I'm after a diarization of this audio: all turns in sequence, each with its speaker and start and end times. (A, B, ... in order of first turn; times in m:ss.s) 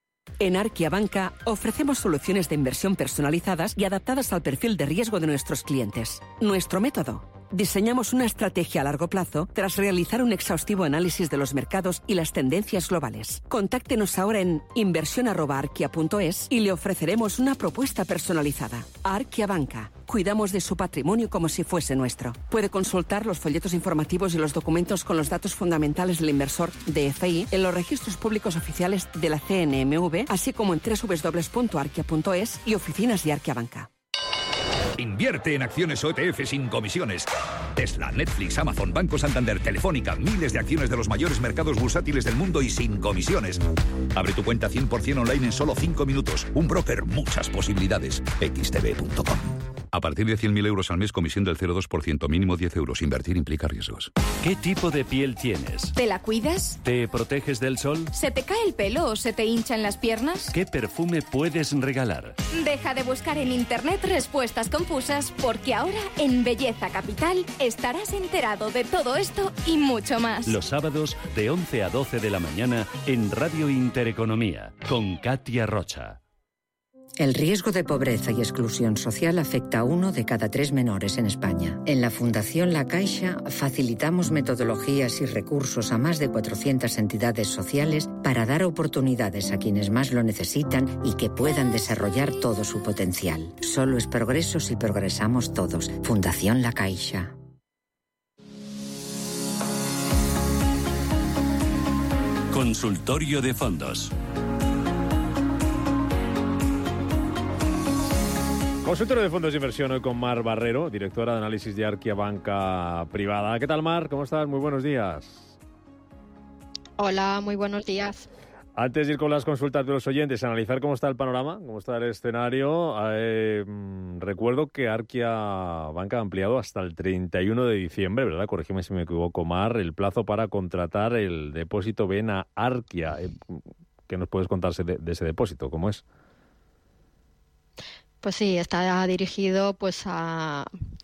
0:00.4-0:33.9 A
0:35.0-0:43.6 B
0:44.1-0:54.1 B
0:54.4-0:55.9 C
0:55.9-0:56.8 D
0:56.8-0:58.1 C
0:58.1-1:00.5 D
1:00.5-1:02.4 C
1:02.5-1:10.6 D
1:10.4-1:16.2 C
1:17.2-1:37.3 E
1:42.5-1:44.1 C
1:48.8-1:55.6 F
1:57.0-1:58.3 G
1:58.8-2:16.0 F
2:18.2-2:20.7 G